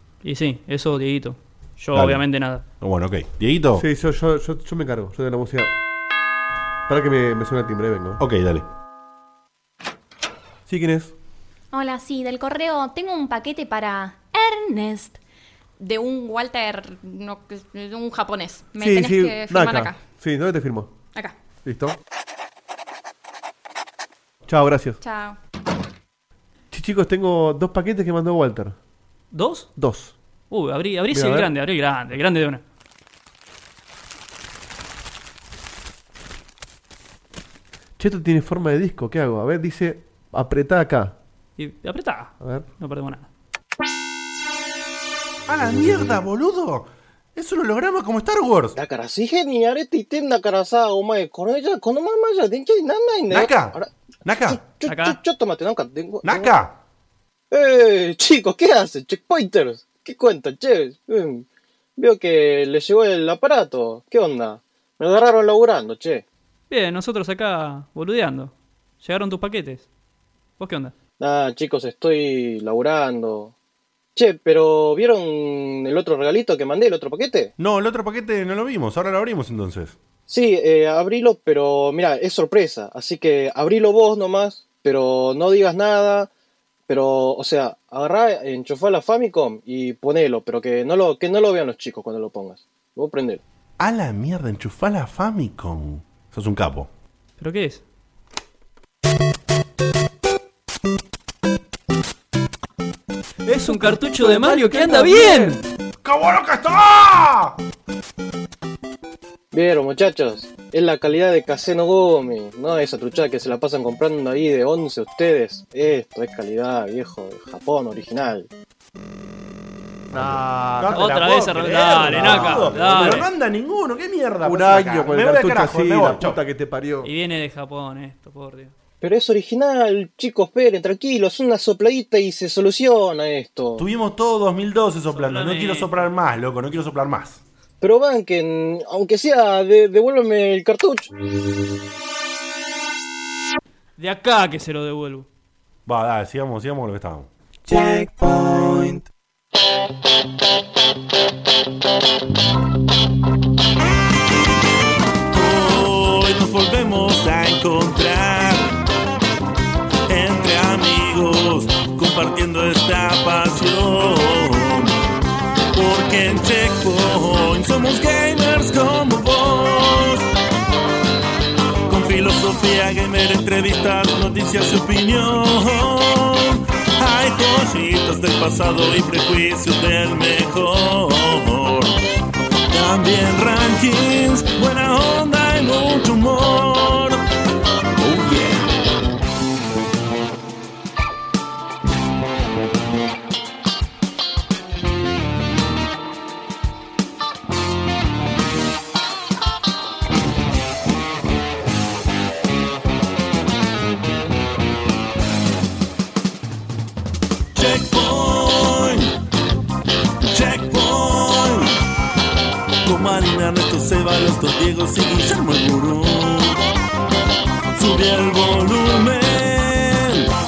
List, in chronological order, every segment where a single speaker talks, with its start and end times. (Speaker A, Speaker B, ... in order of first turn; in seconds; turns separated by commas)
Speaker A: 0.2-2.6, Speaker B: 1.9-2.2, Speaker B: 2.8-3.8, Speaker C: 3.8-5.7, Speaker C: 6.9-8.2, Speaker B: 8.2-8.7, Speaker C: 10.7-11.1, Speaker D: 11.7-15.2, Speaker D: 15.8-20.0, Speaker C: 18.8-20.9, Speaker C: 21.6-22.0, Speaker C: 24.5-25.0, Speaker D: 25.0-25.4, Speaker C: 26.7-28.8, Speaker A: 29.3-29.7, Speaker C: 29.8-30.1, Speaker A: 30.5-32.6, Speaker C: 31.1-31.5, Speaker C: 38.0-41.1, Speaker A: 41.6-43.3, Speaker C: 42.4-42.7, Speaker B: 45.5-48.8, Speaker E: 48.8-56.5, Speaker B: 53.3-54.6, Speaker A: 54.9-55.2, Speaker B: 56.2-56.7, Speaker E: 57.5-61.5, Speaker E: 62.0-66.2, Speaker A: 66.7-69.9, Speaker A: 70.6-70.9, Speaker E: 71.2-73.5, Speaker E: 74.2-77.5, Speaker B: 77.6-79.9, Speaker E: 80.3-86.3, Speaker E: 86.9-93.4, Speaker B: 93.8-96.9, Speaker A: 97.4-97.8, Speaker A: 103.5-105.6, Speaker C: 103.6-105.6, Speaker B: 106.0-107.6, Speaker E: 109.5-118.5, Speaker A: 120.1-123.3, Speaker B: 120.1-126.4, Speaker C: 122.1-122.8, Speaker C: 124.4-127.1, Speaker A: 127.0-128.7, Speaker E: 129.0-133.8, Speaker B: 133.8-137.4, Speaker A: 135.1-136.1, Speaker E: 137.8-141.1, Speaker A: 144.0-145.3, Speaker B: 145.9-147.3, Speaker F: 155.3-158.7, Speaker F: 160.1-165.0, Speaker F: 165.7-170.3, Speaker F: 171.9-182.0, Speaker F: 182.7-187.2, Speaker F: 188.0-188.7, Speaker F: 207.6-209.1, Speaker F: 210.2-211.8, Speaker F: 212.8-216.6, Speaker F: 217.7-220.3